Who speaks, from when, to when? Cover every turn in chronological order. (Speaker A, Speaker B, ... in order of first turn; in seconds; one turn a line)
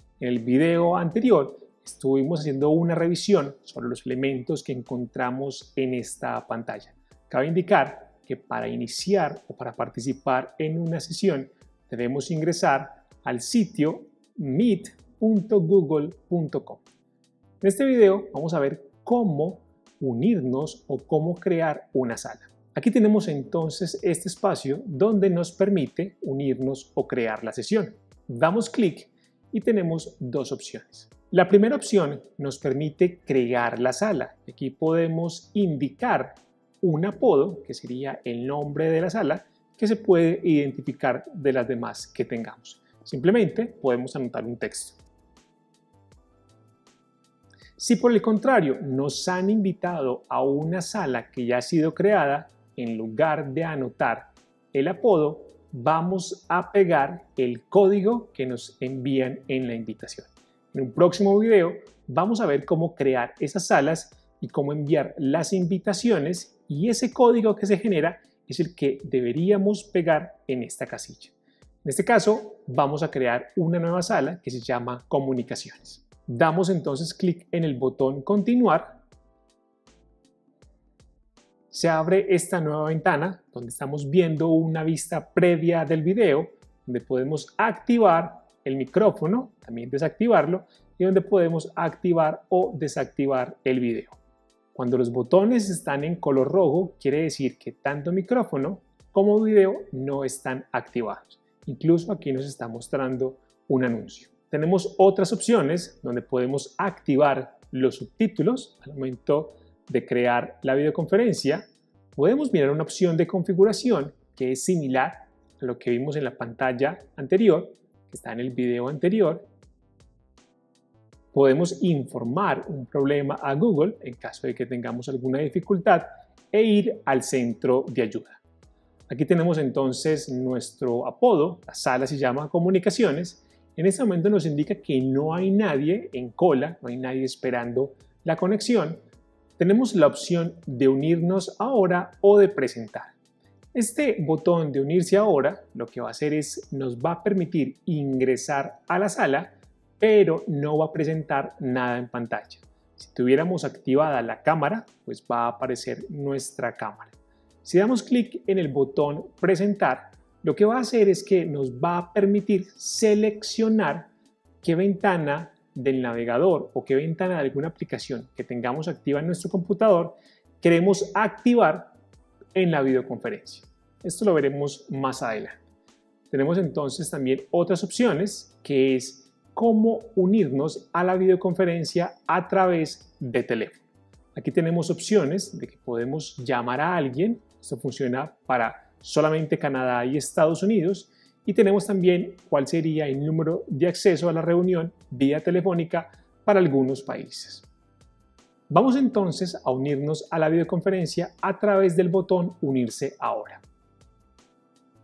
Speaker A: 0.2-16.8
Speaker A: 17.6-45.0
Speaker A: 47.8-79.0
Speaker A: 81.7-94.2
Speaker A: 94.7-119.5
Speaker A: 121.3-128.4
Speaker A: 129.1-139.0
Speaker A: 139.6-143.1
Speaker A: 143.7-164.1
Speaker A: 164.6-171.9
Speaker A: 172.6-175.6
Speaker A: 176.3-197.7
Speaker A: 198.7-203.6